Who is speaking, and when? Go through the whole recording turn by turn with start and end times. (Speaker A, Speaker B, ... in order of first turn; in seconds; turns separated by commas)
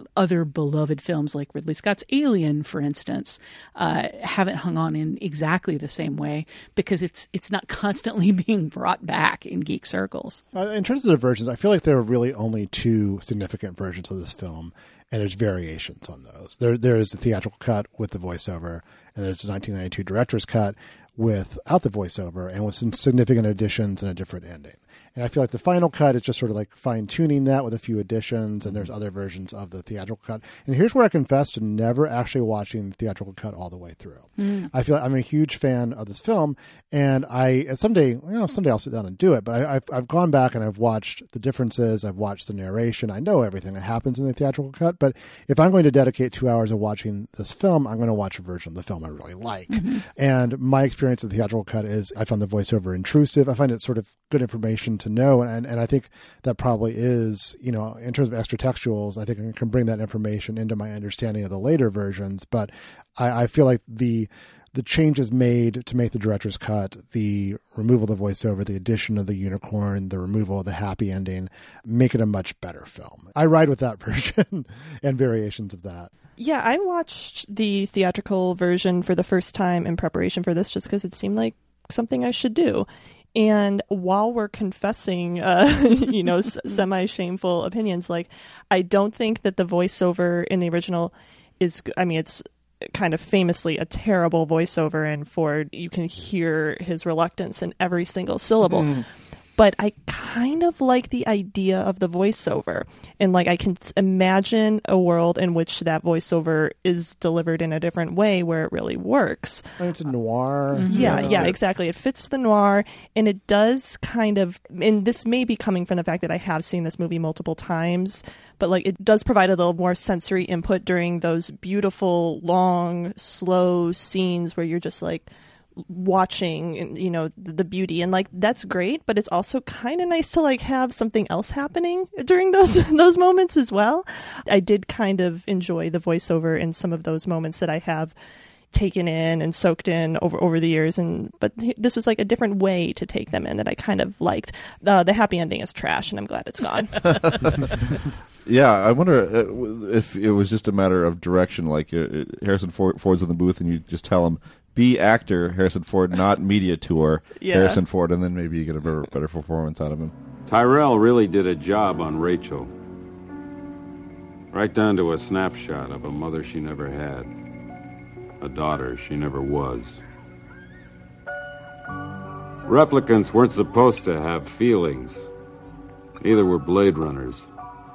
Speaker A: 0.2-10.4, Speaker B: 10.5-76.1, Speaker A: 34.4-34.7, Speaker A: 49.7-50.0, Speaker C: 76.4-109.6, Speaker D: 98.7-99.0, Speaker B: 109.8-111.5, Speaker A: 110.7-111.4, Speaker C: 110.9-138.1, Speaker D: 111.0-111.5, Speaker C: 138.7-147.6, Speaker D: 147.4-147.7, Speaker D: 148.4-160.1, Speaker C: 157.4-157.8, Speaker E: 160.5-162.7, Speaker E: 164.5-167.3, Speaker E: 168.4-170.0, Speaker E: 172.7-175.3, Speaker E: 176.2-177.5